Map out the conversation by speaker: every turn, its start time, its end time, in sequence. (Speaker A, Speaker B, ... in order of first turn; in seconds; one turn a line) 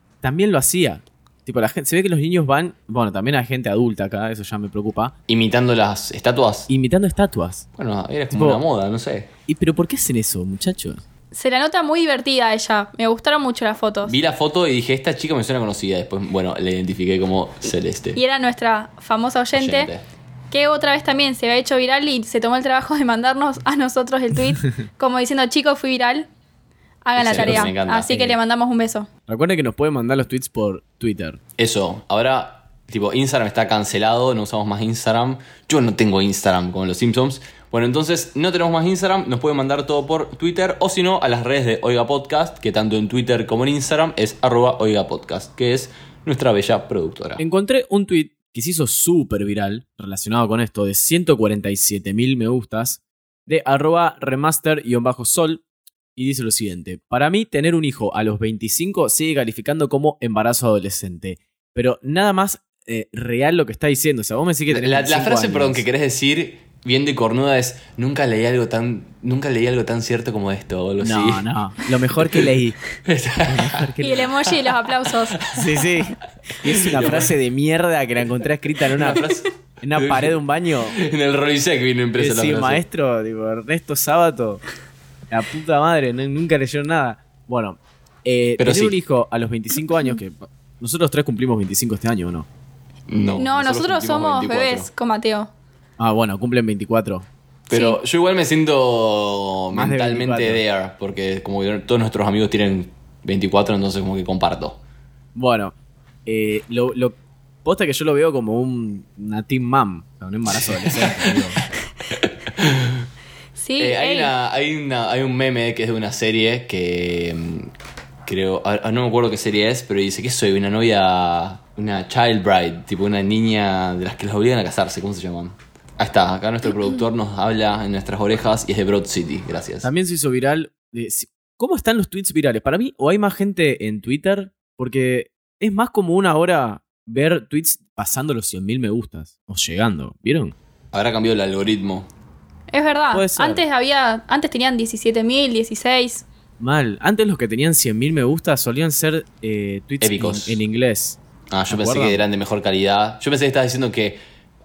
Speaker A: 0.2-5.1
Speaker B: 5.3-6.7
Speaker A: 6.7-7.7
Speaker B: 7.8-9.3
Speaker A: 8.3-8.6
Speaker A: 9.5-11.0
Speaker C: 11.3-14.2
Speaker B: 14.0-18.2
Speaker C: 18.1-19.9
Speaker B: 19.5-20.0
Speaker C: 20.5-26.3
Speaker C: 27.1-29.1
Speaker B: 27.2-28.4
Speaker A: 27.3-27.7
Speaker A: 29.3-31.4
Speaker B: 31.6-47.4
Speaker A: 47.4-55.6
Speaker A: 56.1-65.8
Speaker B: 64.7-71.4
Speaker A: 71.0-72.8
Speaker B: 73.0-73.9
Speaker A: 73.4-74.3
Speaker C: 74.0-75.4
Speaker B: 74.5-75.6
Speaker A: 75.5-79.3
Speaker B: 76.7-77.3
Speaker B: 79.0-80.4
Speaker A: 79.8-81.0
Speaker B: 80.9-82.8
Speaker A: 82.2-84.6
Speaker A: 85.3-92.5
Speaker B: 88.6-89.0
Speaker B: 93.1-94.9
Speaker C: 93.4-95.5
Speaker A: 96.0-97.3
Speaker B: 97.7-104.8
Speaker C: 97.7-98.0
Speaker A: 99.7-100.6
Speaker A: 105.3-111.6
Speaker B: 110.8-111.4
Speaker B: 112.2-113.1
Speaker C: 113.6-114.3
Speaker B: 113.8-117.7
Speaker B: 118.2-129.9
Speaker A: 129.8-140.6
Speaker B: 140.9-142.1
Speaker C: 142.7-146.2
Speaker A: 143.1-143.6
Speaker A: 146.6-152.2
Speaker B: 150.0-150.6
Speaker B: 151.5-154.2